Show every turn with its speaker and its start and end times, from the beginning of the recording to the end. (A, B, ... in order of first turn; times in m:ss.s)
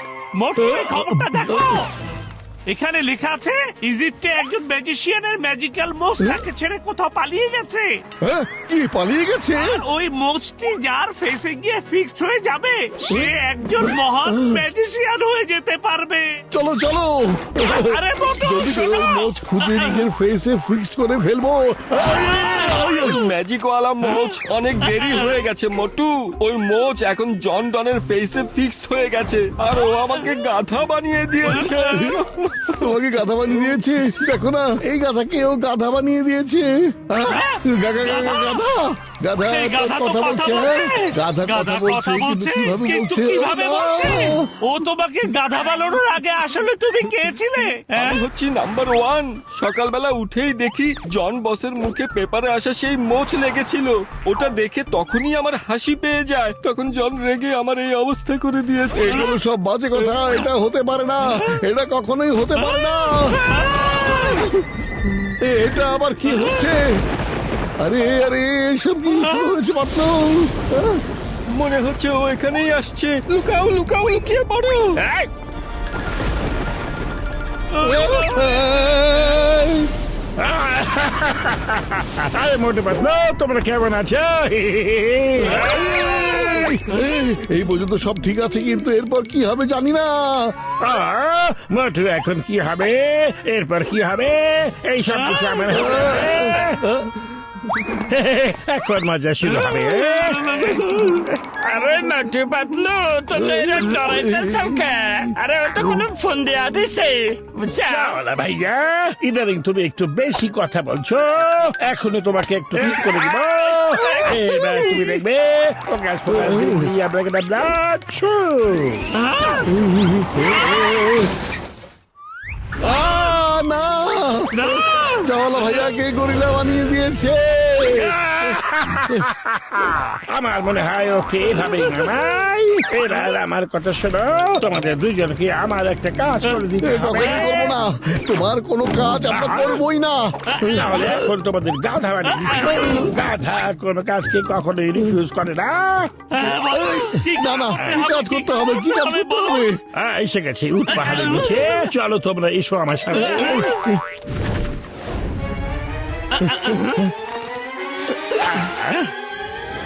0:00.3-0:01.9 A
0:00.6-0:01.7 B
0:02.7-0:08.0 A
0:08.2-0:09.8 B
0:09.5-0:16.4 A
0:13.9-0:14.6 B
0:16.5-0:23.2 B
0:17.6-0:20.0 A
0:22.9-0:32.7 C
0:32.8-0:44.5 B
0:37.2-0:38.8 A
0:39.5-0:48.2 A
0:47.9-0:59.3 C
0:58.9-1:03.5 B
1:03.5-1:04.3 C
1:05.4-1:07.0 B
1:07.8-1:11.0 B
1:11.4-1:15.0 C
1:15.0-1:15.3 D
1:17.7-1:19.9 B
1:17.8-1:18.5 A
1:20.4-1:25.9 D
1:25.4-1:30.5 B
1:25.7-1:26.1 A
1:30.8-1:36.9 D
1:35.1-1:36.4 A
1:35.8-1:37.1 B
1:38.0-1:40.7 D
1:39.4-1:41.3 A
1:41.7-1:48.1 E
1:43.5-1:44.8 B
1:47.6-1:59.1 D
1:53.9-1:54.3 A
1:56.3-1:56.9 B
1:59.1-1:59.7 A
1:59.7-2:01.3 B
2:00.4-2:00.9 A
2:02.8-2:08.3 B
2:04.5-2:05.3 A
2:08.3-2:17.7 D
2:16.8-2:21.3 B
2:19.3-2:19.8 D
2:20.6-2:26.1 D
2:20.6-2:21.0 A
2:22.4-2:22.9 A
2:22.6-2:23.1 B
2:26.3-2:29.7 A
2:26.7-2:29.8 B
2:29.9-2:33.8 D
2:31.1-2:31.7 A
2:33.3-2:33.8 B
2:36.3-2:37.1 A
2:38.3-2:39.1 D